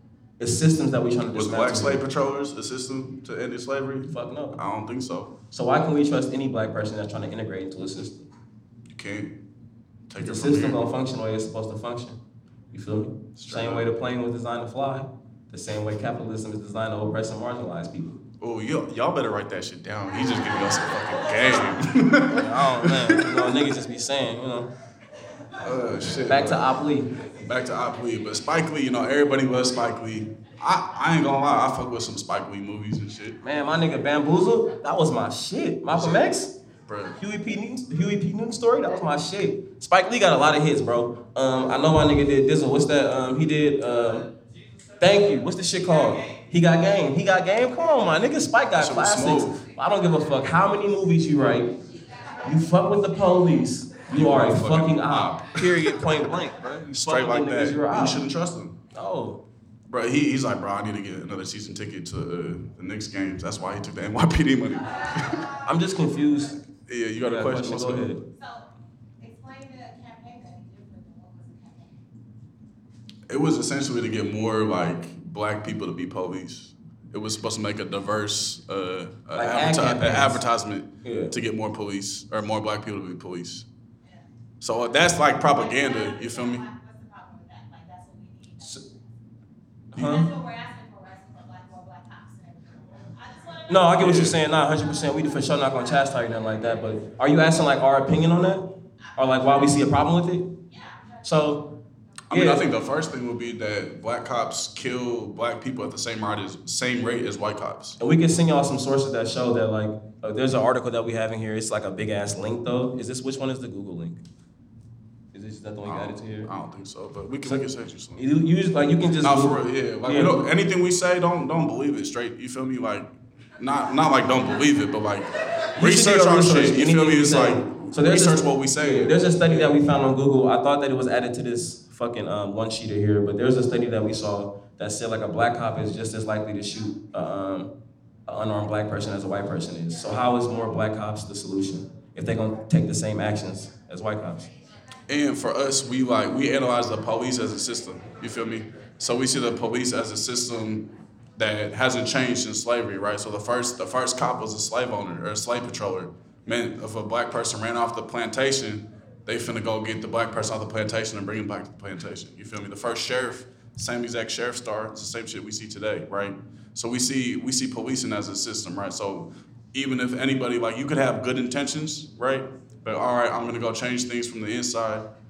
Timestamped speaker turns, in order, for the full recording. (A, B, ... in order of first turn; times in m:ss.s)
0:00.4-0:02.0 A
0:01.3-0:05.4 B
0:04.1-0:04.6 A
0:05.5-0:08.3 A
0:08.9-0:09.4 B
0:10.1-0:10.8 B
0:10.2-0:12.2 A
0:12.7-0:18.2 A
0:13.4-0:13.9 B
0:18.4-0:23.6 B
0:22.3-0:24.7 A
0:25.6-0:26.7 B
0:26.3-0:27.1 A
0:27.3-0:33.4 B
0:33.4-0:36.6 A
0:35.9-0:36.3 B
0:36.9-0:37.2 B
0:37.2-0:44.3 A
0:45.0-0:51.8 A
0:48.8-0:49.6 B
0:52.4-0:58.2 A
0:54.1-0:58.8 B
0:58.9-0:59.4 A
0:59.9-1:05.5 B
1:05.6-1:06.6 A
1:06.9-1:08.1 B
1:07.2-1:08.2 A
1:08.3-1:08.7 C
1:09.2-1:11.9 C
1:13.3-1:23.7 B
1:19.3-1:20.4 A
1:21.0-1:21.3 A
1:24.6-1:26.6 B
1:25.3-1:28.9 C
1:29.9-1:30.3 A
1:30.0-1:34.1 C
1:33.7-1:40.5 A
1:34.0-1:34.4 B
1:39.0-1:39.8 C
1:40.7-1:41.2 C
1:41.2-1:41.8 A
1:42.3-1:48.0 B
1:42.3-1:42.6 A
1:48.0-1:54.2 A
1:55.3-1:56.5 A
1:55.8-1:58.2 B
1:57.4-2:00.4 A
1:59.2-2:09.8 B
2:05.8-2:17.7 A
2:18.3-2:24.5 A
2:25.1-2:55.1 B